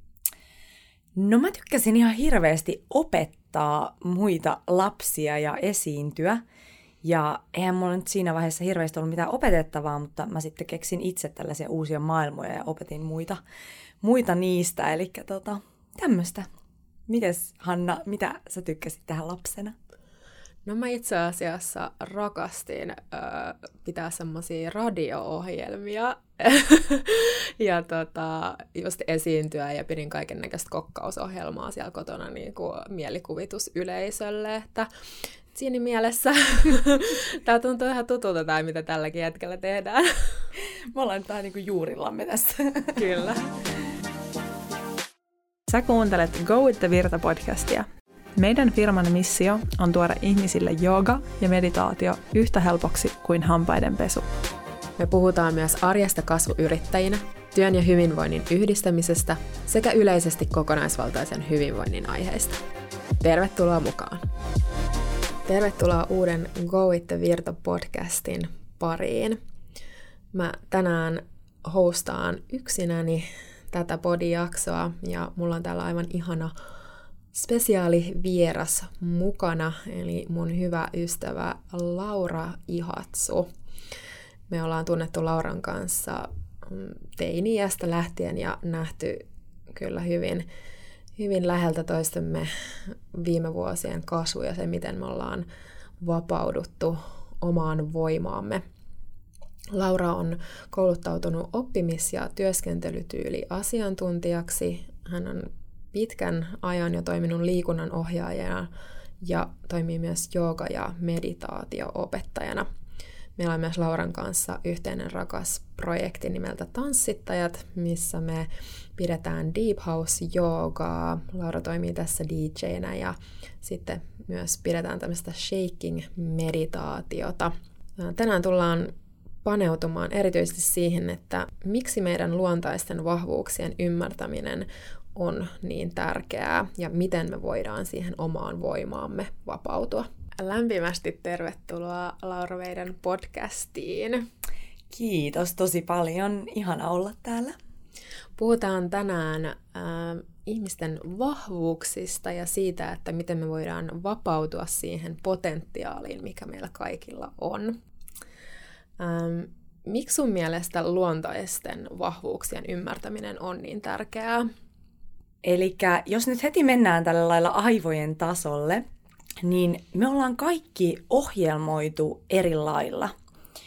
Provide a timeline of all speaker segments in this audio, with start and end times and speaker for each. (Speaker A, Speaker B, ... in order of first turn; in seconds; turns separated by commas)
Speaker A: 1.1-6.4, Speaker A: 7.0-13.4, Speaker A: 14.0-16.5, Speaker A: 17.1-19.8, Speaker B: 20.6-34.9, Speaker B: 35.5-40.2, Speaker A: 40.9-43.0, Speaker B: 43.0-43.4, Speaker C: 45.7-54.2, Speaker B: 55.0-62.6, Speaker B: 63.2-64.3, Speaker B: 65.5-69.4, Speaker B: 70.3-76.5, Speaker B: 77.3-83.5, Speaker B: 84.5-90.5, Speaker B: 91.2-95.5, Speaker B: 96.0-98.6, Speaker B: 99.7-108.7, Speaker B: 109.2-112.7, Speaker B: 113.4-128.9, Speaker B: 129.4-144.2, Speaker A: 144.9-147.6, Speaker B: 148.4-157.8, Speaker B: 159.0-164.5, Speaker A: 165.4-168.8, Speaker A: 169.4-173.1